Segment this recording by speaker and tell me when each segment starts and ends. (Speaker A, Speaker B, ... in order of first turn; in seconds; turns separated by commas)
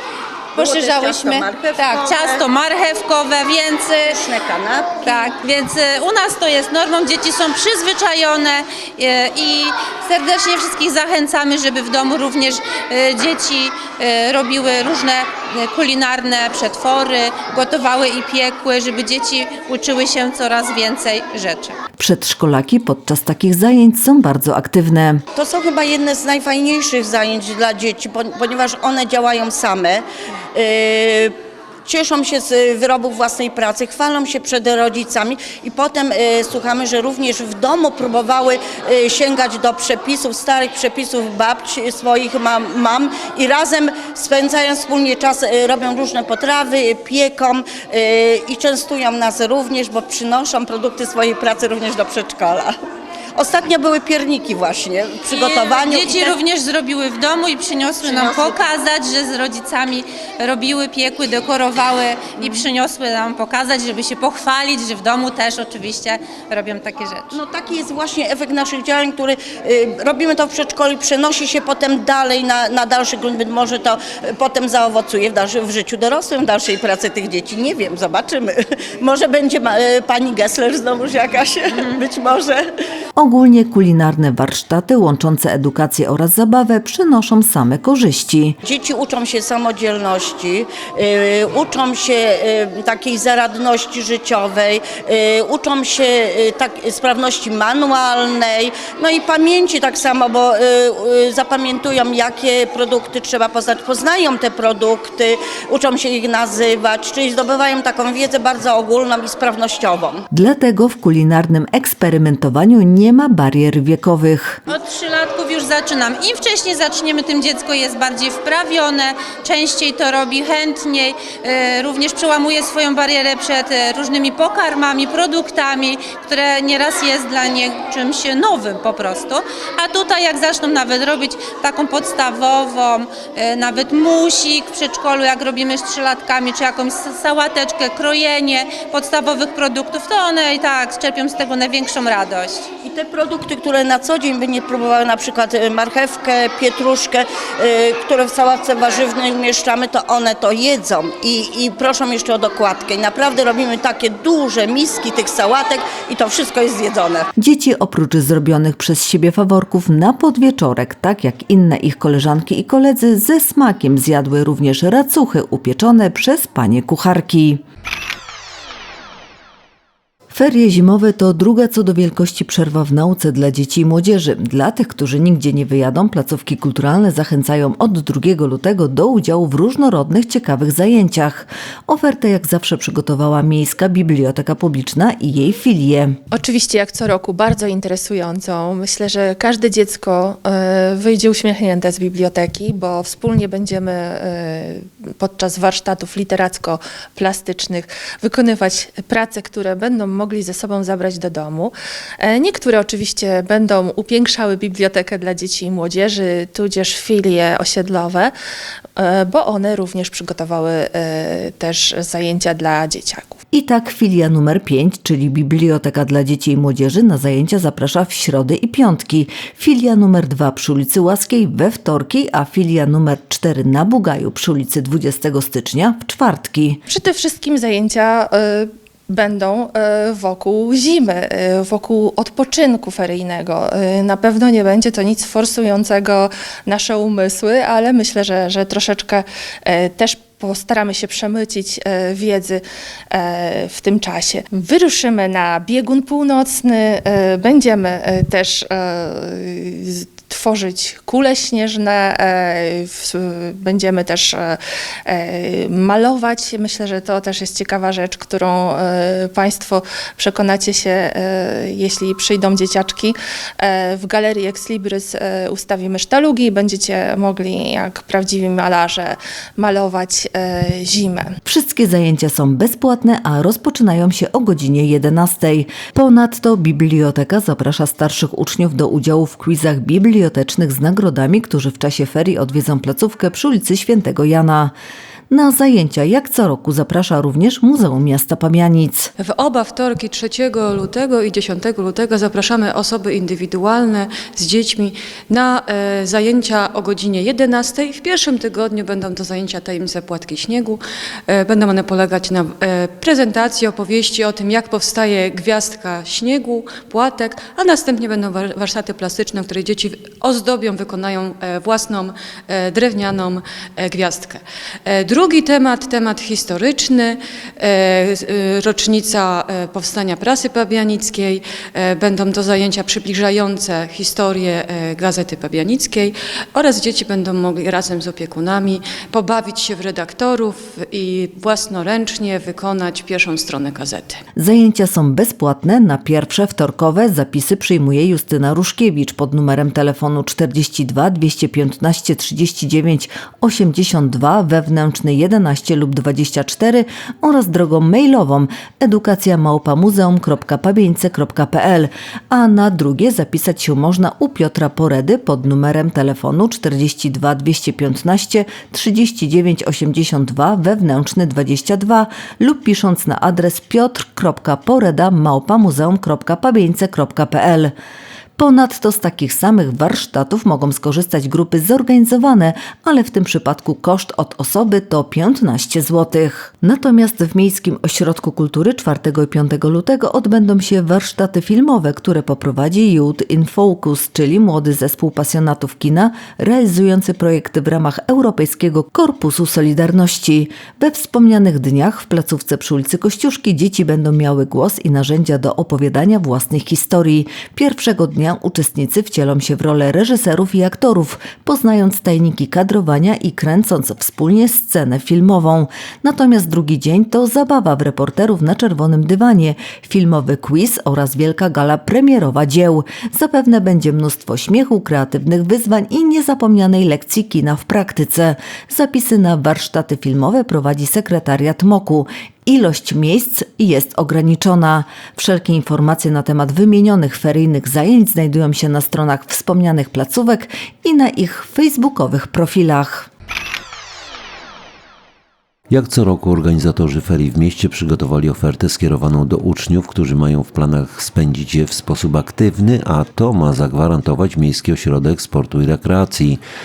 Speaker A: 0.6-2.4, Speaker B: 0.6-4.2, Speaker A: 4.0-5.3, Speaker B: 5.0-21.8, Speaker C: 22.0-25.2, Speaker A: 25.3-52.8, Speaker A: 53.4-56.4, Speaker B: 55.3-67.3, Speaker A: 58.0-58.6, Speaker A: 62.4-62.6, Speaker A: 67.3-82.6, Speaker B: 81.8-82.0, Speaker C: 83.2-88.6, Speaker A: 88.6-110.2, Speaker C: 110.3-114.6, Speaker B: 114.7-142.7, Speaker A: 142.8-157.3, Speaker C: 157.4-167.6, Speaker C: 170.3-186.2, Speaker D: 186.3-208.3, Speaker D: 209.0-213.4, Speaker C: 213.5-226.8, Speaker D: 226.9-271.3, Speaker C: 271.4-284.7, Speaker C: 285.3-289.1, Speaker E: 289.2-334.2, Speaker C: 334.4-367.7, Speaker C: 368.4-433.1, Speaker F: 435.7-446.4